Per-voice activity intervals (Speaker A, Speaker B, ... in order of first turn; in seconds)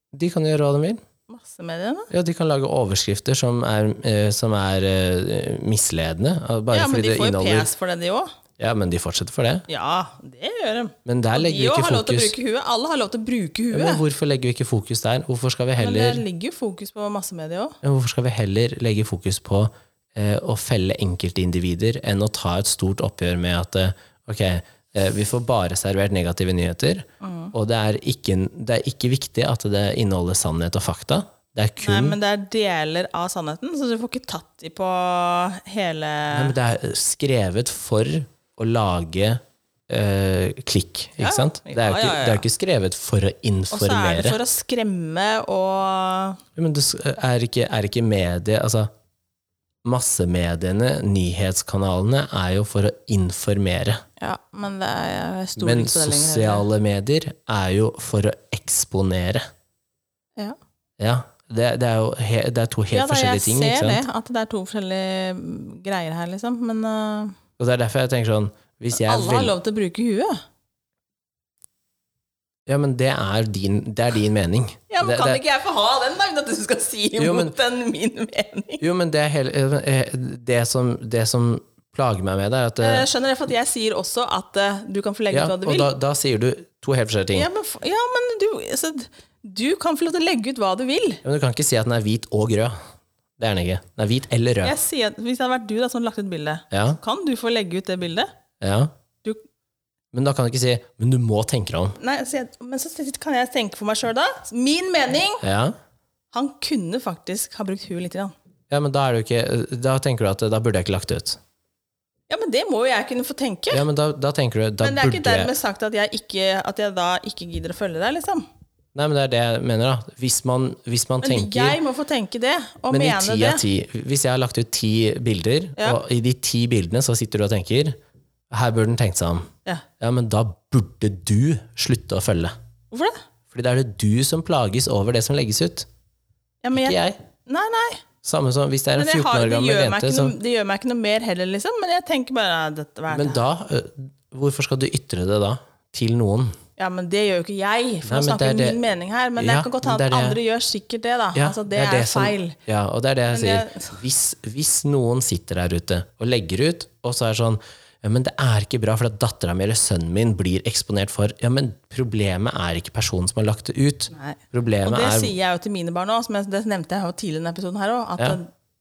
Speaker A: 0.1-1.0, 2.1-7.7, 8.6-9.7, 11.1-12.3, 13.7-16.2, 17.8-32.2, 36.3-44.4, 46.6-48.9, 49.8-54.0, 55.6-59.5, 61.0-64.0, 67.6-69.6, 72.7-75.4, 77.2-77.5, 78.8-83.1, 85.3-87.5, 91.2-92.7, 93.4-94.8, 96.7-97.0, 98.6-98.9, 100.1-102.0, 105.4-105.8, 108.7-111.4, 113.7-115.5, 119.0-121.8, 122.9-128.0, 128.5-129.5, 130.0-132.5, 133.5-135.9, 136.7-137.2, 138.2-140.3, 143.1-146.6, 148.1-148.8, 149.4-150.4, 151.3-165.3
Speaker B: 1.3-2.1, 6.7-8.3, 9.7-14.0, 15.8-17.8, 27.2-27.5, 31.8-36.5, 41.2-42.5, 43.7-46.4, 54.2-56.7, 62.9-67.4, 68.9-70.4, 74.9-78.8, 82.8-85.9, 87.3-91.2, 94.6-98.3, 102.0-105.4, 106.3-108.3, 112.3-113.8, 114.8-118.5, 121.2-123.6, 132.9-133.2, 136.6-138.0, 139.0-143.4, 146.8-152.6, 153.3-154.0, 164.1-168.5